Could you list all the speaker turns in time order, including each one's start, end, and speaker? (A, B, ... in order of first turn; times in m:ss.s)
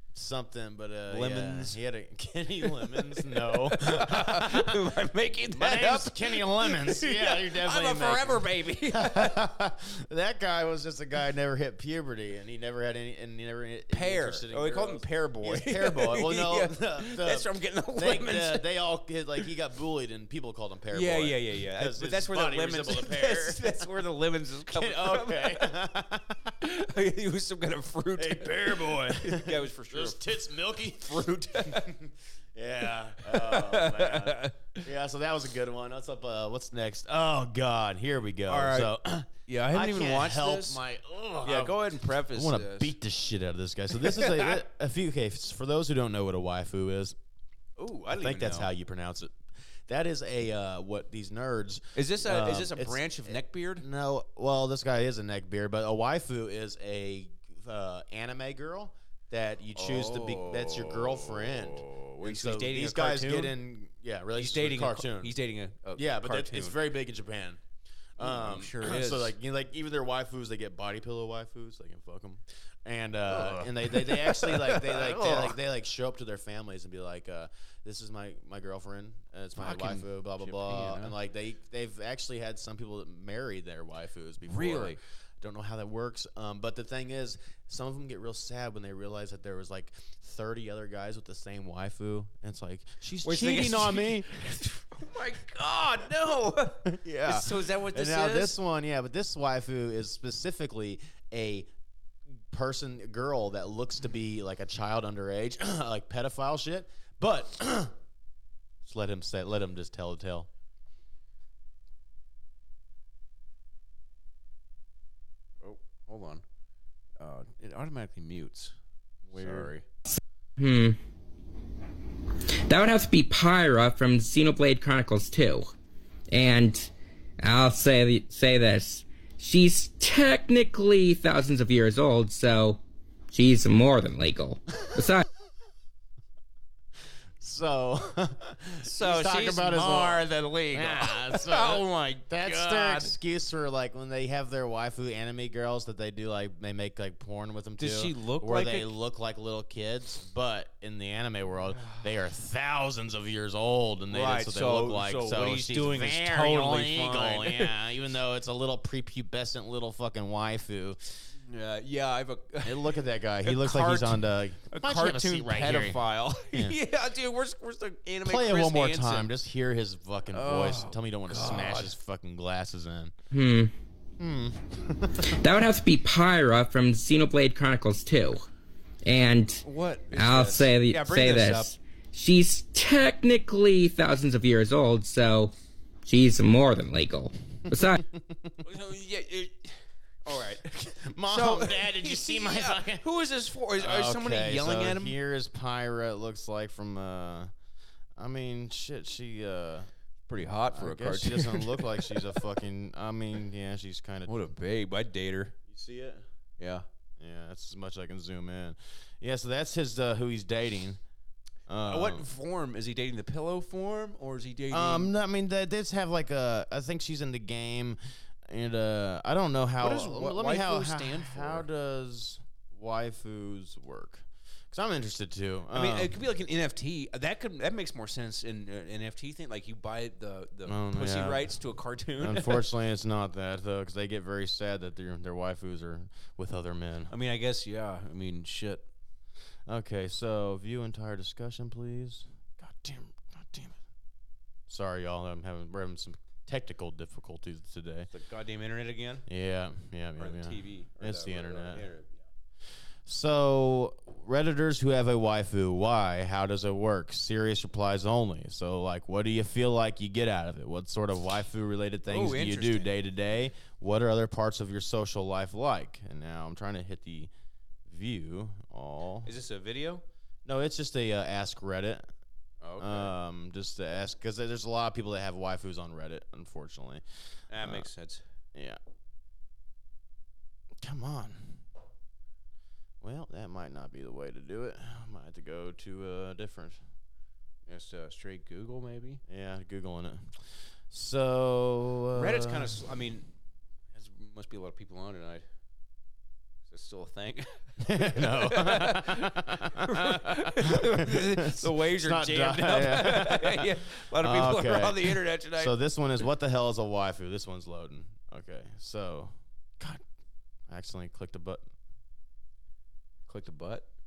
0:00.1-0:04.8 A
0:01.1-0:01.8 B
0:02.6-0:09.4 B
0:05.5-0:23.8 A
0:13.9-0:18.7 B
0:20.9-0:25.7 B
0:24.7-0:26.6 A
0:26.6-0:30.2 B
0:28.2-0:47.2 A
0:31.0-0:31.9 B
0:33.2-0:34.8 B
0:38.5-0:38.9 B
0:39.4-0:40.8 B
0:41.4-0:42.9 B
0:43.9-0:44.6 B
0:47.8-0:48.7 B
0:48.2-0:49.4 A
0:49.9-1:05.3 A
0:51.9-0:53.9 B
0:59.7-1:03.6 B
1:04.4-1:06.8 B
1:05.9-1:07.6 A
1:08.2-1:34.3 A
1:08.2-1:09.3 B
1:13.3-1:15.6 B
1:19.6-1:21.1 B
1:24.4-1:25.0 B
1:33.2-1:38.6 B
1:36.9-1:41.7 A
1:42.5-1:47.9 A
1:48.8-1:50.5 A
1:55.6-1:56.4 B
1:57.2-1:58.7 B
1:59.3-1:59.7 A
1:59.3-1:59.8 B
2:00.1-2:01.0 C
2:02.7-2:05.7 C
2:06.3-2:12.8 C
2:13.3-2:15.2 C
2:17.4-2:41.2 A
2:18.8-2:23.2 B
2:27.8-2:28.9 B
2:31.7-2:32.1 B
2:34.1-2:37.7 B
2:41.4-2:49.3 B
2:42.6-2:46.0 A
2:48.2-2:53.1 A
2:50.3-2:51.9 B
2:53.3-2:53.7 C
2:54.2-2:55.3 A
2:55.2-2:58.5 C
2:59.0-3:05.5 C
2:59.6-3:01.7 B
3:06.0-3:08.0 C
3:08.1-3:08.6 A
3:08.6-3:10.7 B
3:10.9-3:13.0 A
3:11.2-3:15.2 B
3:13.8-3:17.5 A
3:18.2-3:19.9 A
3:20.3-3:22.4 B
3:20.7-3:24.4 A
3:24.3-3:25.6 B
3:25.7-3:26.2 A
3:26.6-3:26.9 B
3:27.2-3:31.0 A
3:31.7-3:32.3 A
3:31.8-3:35.1 B
3:34.7-3:46.1 A
3:39.8-3:41.7 B
3:45.7-3:52.7 B
3:50.7-3:51.5 A
3:52.2-3:57.1 A
3:57.1-3:58.9 B
3:59.7-4:03.8 A
4:04.7-4:08.1 A
4:08.1-4:09.3 B
4:09.3-4:11.9 A
4:10.2-4:12.2 B
4:13.0-4:27.3 A
4:22.1-4:22.9 B
4:27.9-4:29.3 A
4:29.2-4:30.0 B
4:30.4-4:32.1 A
4:32.6-4:33.1 B
4:32.8-4:37.0 A
4:37.5-4:38.2 B
4:37.6-4:37.9 A
4:40.8-4:41.6 A
4:43.0-4:46.8 A
4:47.6-4:49.2 B
4:49.3-4:50.4 A
4:50.9-4:52.8 A
4:52.1-4:53.3 B
4:53.9-4:55.4 B
4:56.7-5:05.7 B
4:57.8-5:10.0 A
5:10.7-5:11.6 A
5:13.3-5:13.9 B